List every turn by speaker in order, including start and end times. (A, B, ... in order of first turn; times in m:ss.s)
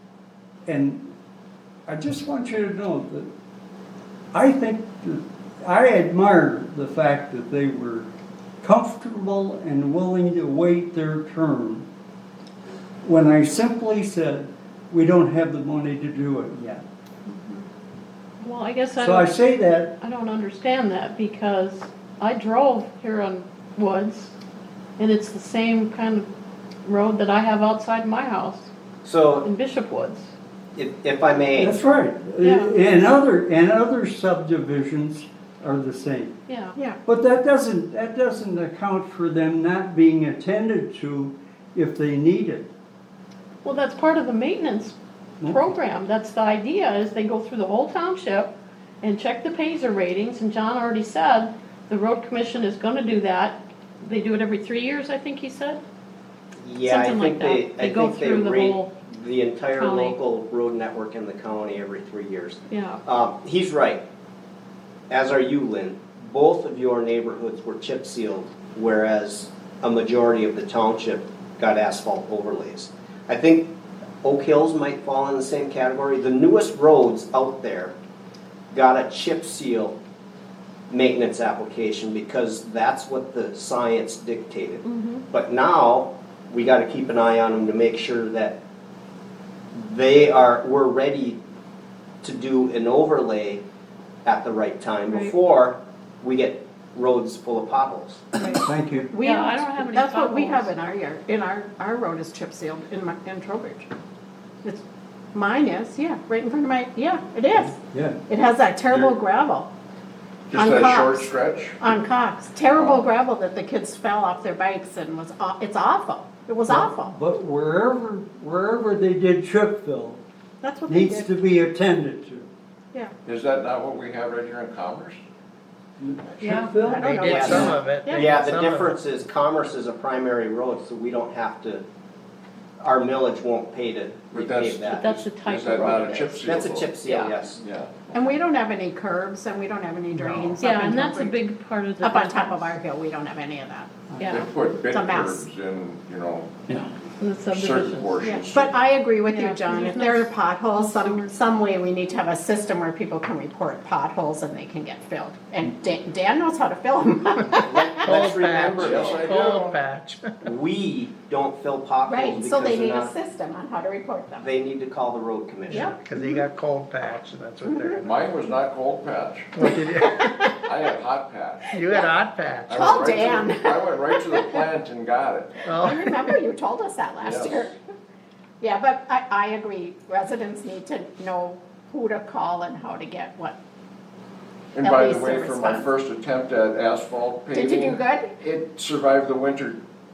0:00.7-0:01.1 A
0:01.9-0:03.3 A
0:04.3-0:08.1 A
0:08.6-0:11.9 A
0:13.0-0:16.8 A
0:17.3-0:17.6 B
0:18.4-0:19.3 C
0:19.0-0:20.0 A
0:20.0-0:24.3 C
0:25.0-0:26.3 C
0:26.8-0:28.7 C
0:29.0-0:29.5 D
0:29.4-0:30.3 C
0:30.8-0:31.8 D
0:31.6-0:36.4 A
0:32.4-0:32.8 C
0:36.5-0:36.8 C
0:37.0-0:42.7 A
0:43.6-0:48.5 C
0:45.4-0:45.7 A
0:49.0-0:55.8 C
0:56.6-1:04.0 D
0:56.8-0:58.9 C
0:59.7-1:00.2 C
1:02.7-1:03.0 C
1:05.1-1:13.7 D
1:14.2-1:17.9 D
1:18.7-1:20.0 D
1:20.9-1:28.6 D
1:29.7-1:31.4 D
1:32.2-1:33.6 D
1:34.2-1:38.3 D
1:35.1-1:35.3 C
1:38.4-1:43.9 B
1:38.5-1:39.1 A
1:39.2-1:40.7 C
1:45.3-1:49.7 B
1:47.5-1:48.2 A
1:50.5-1:51.9 E
1:50.5-1:57.1 B
1:52.7-1:53.1 E
1:56.7-2:00.2 A
2:00.6-2:01.4 B
2:00.9-2:02.5 A
2:03.3-2:05.2 E
2:06.0-2:07.8 A
2:06.4-2:06.7 C
2:06.6-2:08.3 B
2:07.0-2:09.0 F
2:07.2-2:11.8 D
2:12.8-2:15.0 D
2:14.3-2:18.4 E
2:14.9-2:16.5 C
2:15.9-2:17.6 D
2:18.1-2:21.4 B
2:20.2-2:20.5 F
2:20.6-2:22.8 C
2:22.0-2:24.1 B
2:24.2-2:24.4 C
2:24.3-2:26.6 E
2:24.9-2:25.5 B
2:27.2-2:28.3 C
2:27.5-2:28.8 E
2:28.2-2:38.3 B
2:29.3-2:31.3 C
2:37.6-2:39.3 D
2:38.0-2:40.4 F
2:38.7-2:39.8 E
2:40.4-2:43.1 D
2:42.0-2:44.5 B
2:44.4-2:45.9 D
2:45.7-2:46.0 B
2:45.7-2:48.1 F
2:48.0-2:49.5 E
2:49.6-2:50.5 F
2:50.6-2:51.7 E
2:51.7-2:53.3 F
2:51.7-2:52.1 B
2:52.7-2:55.7 E
2:52.7-2:54.6 B
2:55.7-2:56.3 F
2:55.7-2:57.8 B
2:57.2-2:57.7 E
2:58.6-3:03.6 B
3:04.8-3:09.8 E
3:04.8-3:05.9 B
3:07.5-3:08.4 B